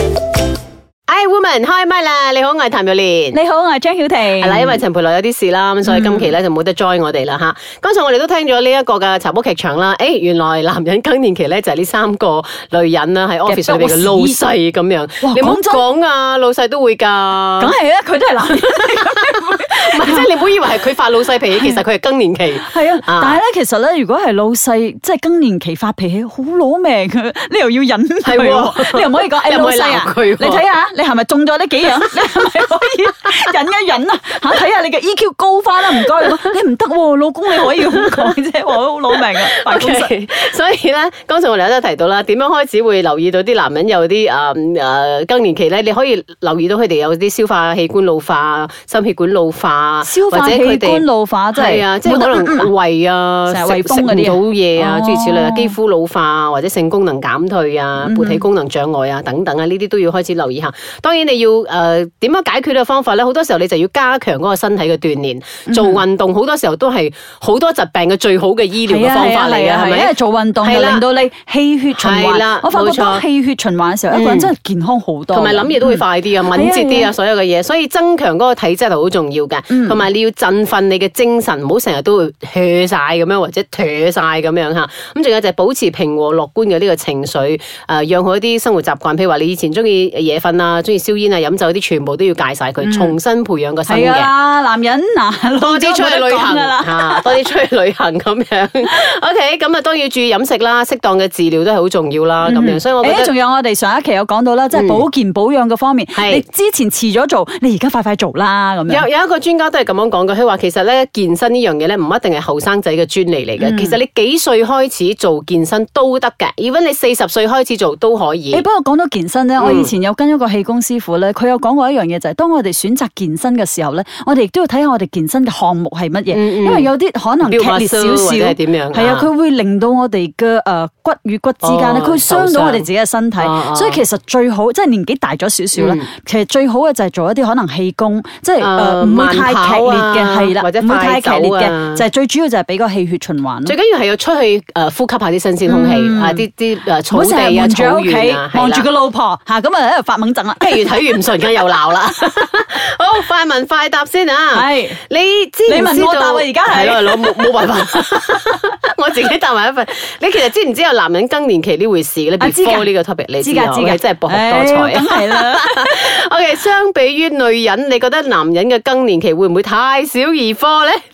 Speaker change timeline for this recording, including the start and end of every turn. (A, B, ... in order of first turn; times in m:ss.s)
0:01.1-0:03.4 A
0:03.3-0:04.8 B
0:04.4-0:17.7 A
0:05.8-0:06.3 B
0:13.4-0:14.4 B
0:15.2-0:15.8 B
0:17.6-0:20.3 B
0:19.7-0:23.4 A
0:22.6-0:40.1 B
0:28.2-0:30.6 A
0:37.6-0:38.4 A
0:39.1-1:11.1 A
0:50.0-0:52.7 B
0:53.5-0:55.8 B
0:58.0-0:58.4 B
1:05.7-1:06.0 B
1:08.8-1:17.1 B
1:11.9-1:13.3 A
1:14.1-1:14.5 A
1:15.3-1:34.3 A
1:19.7-1:20.0 B
1:32.8-1:33.2 B
1:33.9-1:37.4 B
1:35.6-1:43.3 A
1:42.4-1:49.1 B
1:44.7-1:45.1 A
1:46.2-1:46.4 A
1:48.9-1:58.6 A
1:53.6-1:54.0 B
1:58.5-2:23.8 B
1:59.6-1:59.9 A
2:06.3-2:09.3 A
2:11.6-2:14.0 A
2:15.8-2:16.1 A
2:18.6-2:22.0 A
2:23.6-2:28.9 A
2:25.7-2:26.5 B
2:27.1-2:31.0 B
2:30.6-2:51.0 A
2:34.5-2:35.0 B
2:35.7-2:37.5 B
2:42.4-2:46.1 B